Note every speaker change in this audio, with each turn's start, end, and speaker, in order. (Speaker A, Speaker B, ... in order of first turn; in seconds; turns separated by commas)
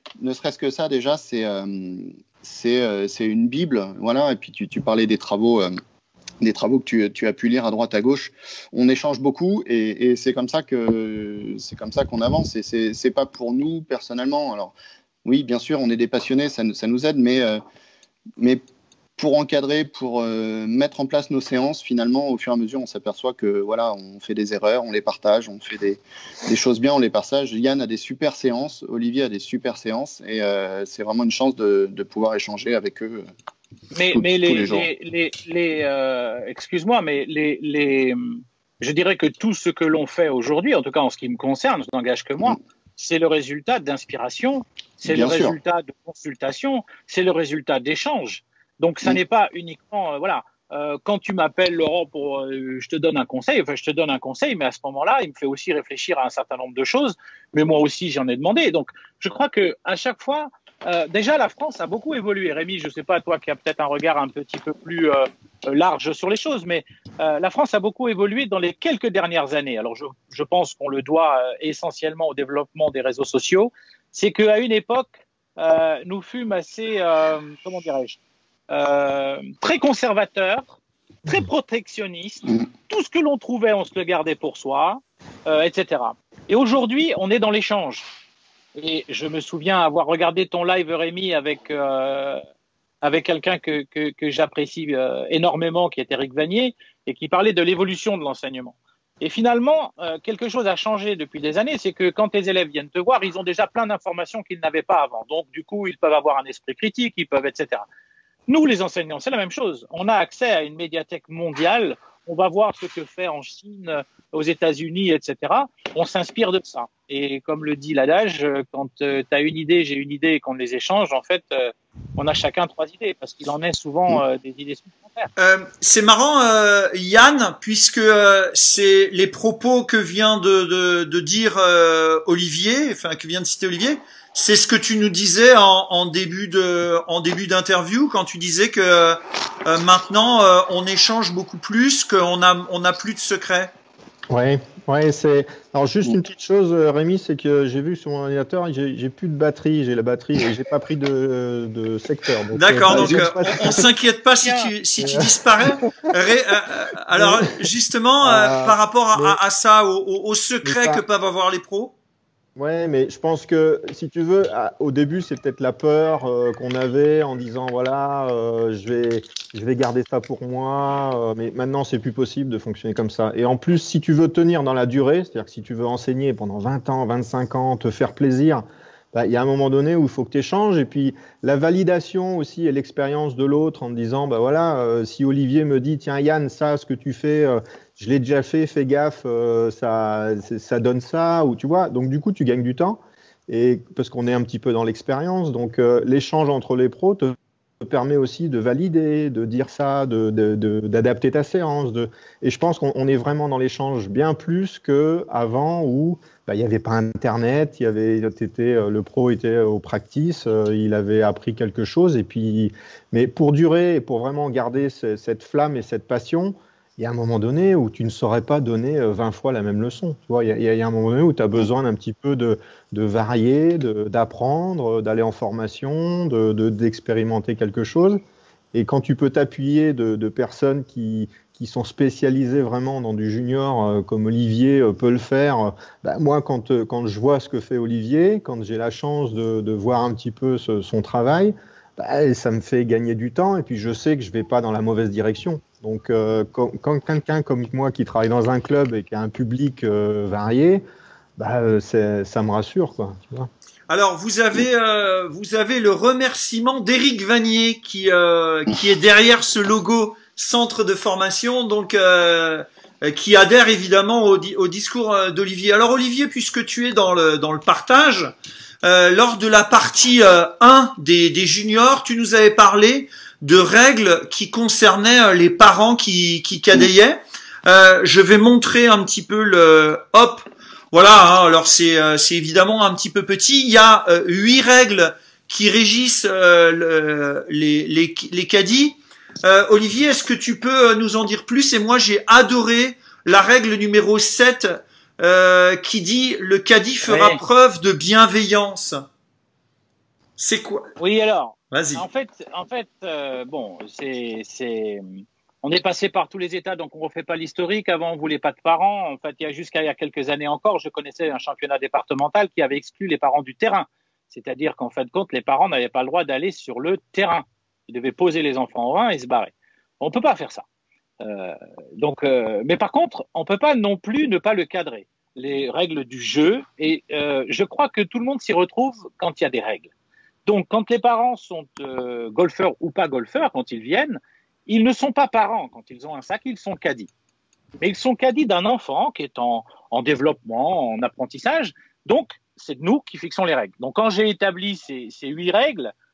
Speaker A: 0.2-5.7, Speaker A: 6.4-17.6, Speaker A: 19.2-33.2, Speaker B: 33.9-78.2, Speaker A: 34.1-34.9, Speaker A: 45.1-45.6, Speaker B: 78.7-88.0, Speaker B: 88.8-92.4, Speaker B: 93.0-107.9, Speaker B: 108.5-125.3, Speaker C: 125.4-143.7, Speaker D: 144.3-153.8, Speaker C: 152.5-161.9, Speaker B: 153.4-153.8, Speaker B: 154.4-154.7, Speaker D: 155.0-155.3, Speaker D: 158.2-159.4, Speaker D: 160.6-161.0, Speaker D: 162.6-228.2, Speaker D: 228.7-250.8, Speaker D: 251.4-253.5, Speaker C: 253.9-299.1, Speaker B: 297.0-297.4, Speaker C: 300.4-300.9, Speaker B: 301.0-320.6, Speaker C: 301.7-302.1, Speaker B: 321.2-329.9, Speaker B: 330.5-337.1, Speaker B: 337.8-345.9